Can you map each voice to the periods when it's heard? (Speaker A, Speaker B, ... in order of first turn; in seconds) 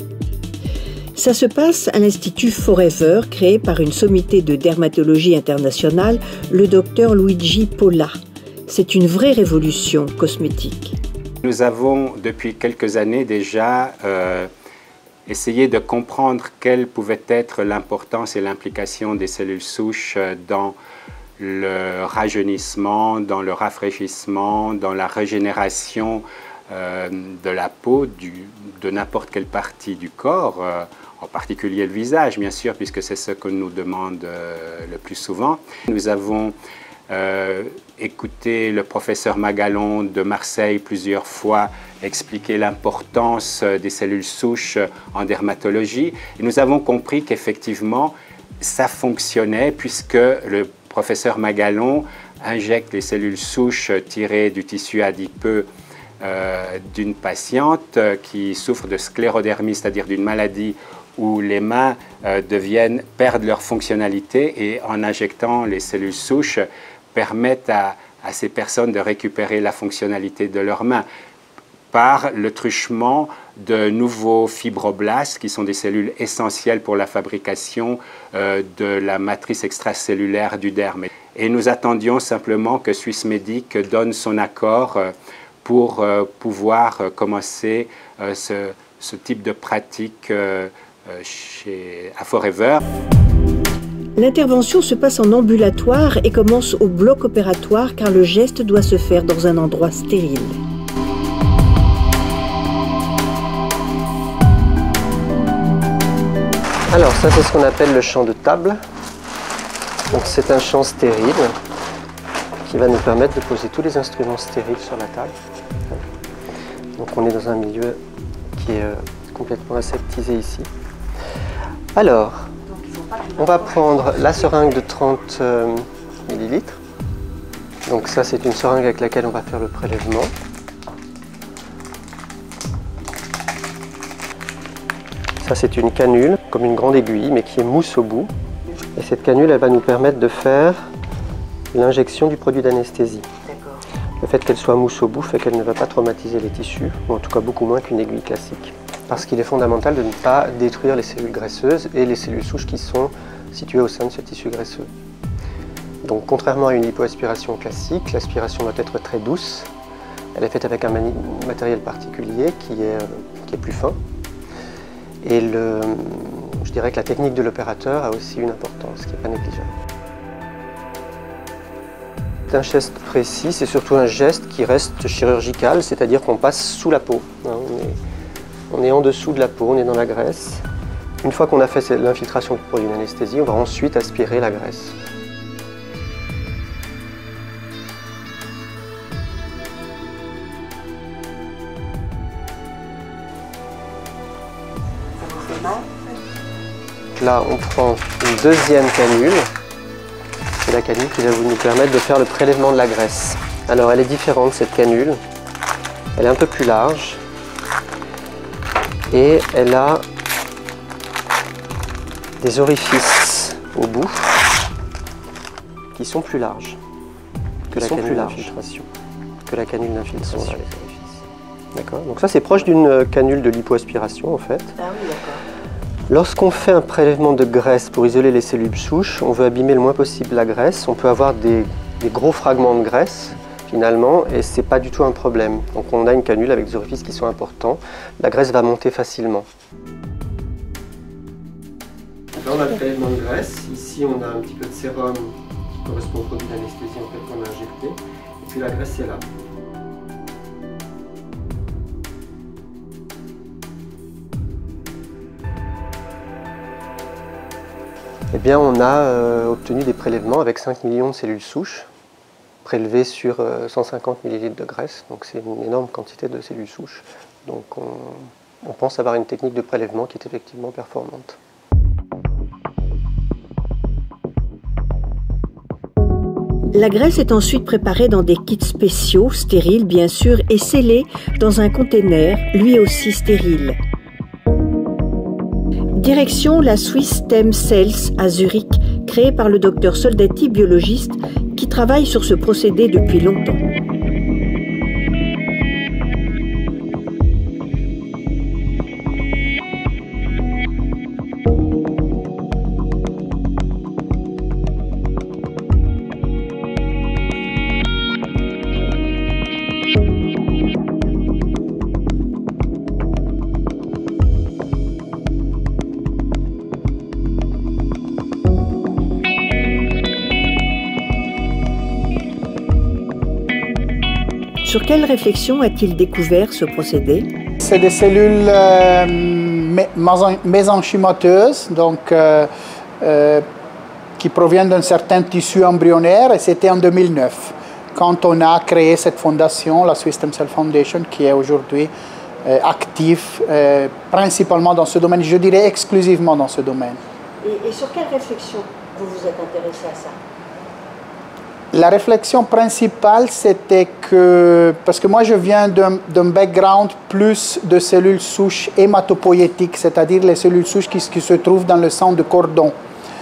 Speaker A: 1.2-8.1, 8.7-11.0, 94.2-100.6, 122.7-124.8, 143.5-143.8, 195.2-196.0, 217.7-218.6, 220.3-220.6, 224.8-225.4, 276.7-283.8, 285.9-293.6, 324.6-327.3, 347.4-350.2
Speaker B: 11.4-14.5, 15.3-20.8, 21.4-36.5, 37.1-55.7, 56.2-71.0, 71.9-85.1, 85.6-92.8
Speaker C: 106.9-108.8, 110.1-111.5, 112.7-115.3, 117.0-118.0, 118.6-120.7, 122.0-122.5, 123.4-126.8, 127.9-130.3, 135.4-138.3, 139.0-140.9, 141.7-143.3, 144.2-154.9, 156.0-159.7, 160.3-164.0, 165.2-169.7, 172.5-178.0, 178.7-180.7, 181.2-184.9, 197.2-199.5, 200.7-205.2, 206.2-207.2, 209.1-210.1, 212.4-214.3, 215.9-216.8, 217.7-218.9, 219.5-221.2, 221.7-224.7, 226.1-239.5, 242.3-249.3, 258.3-261.9, 262.6-271.4
Speaker D: 327.6-332.5, 333.0-333.4, 334.2-341.9, 342.4-347.0, 351.7-362.8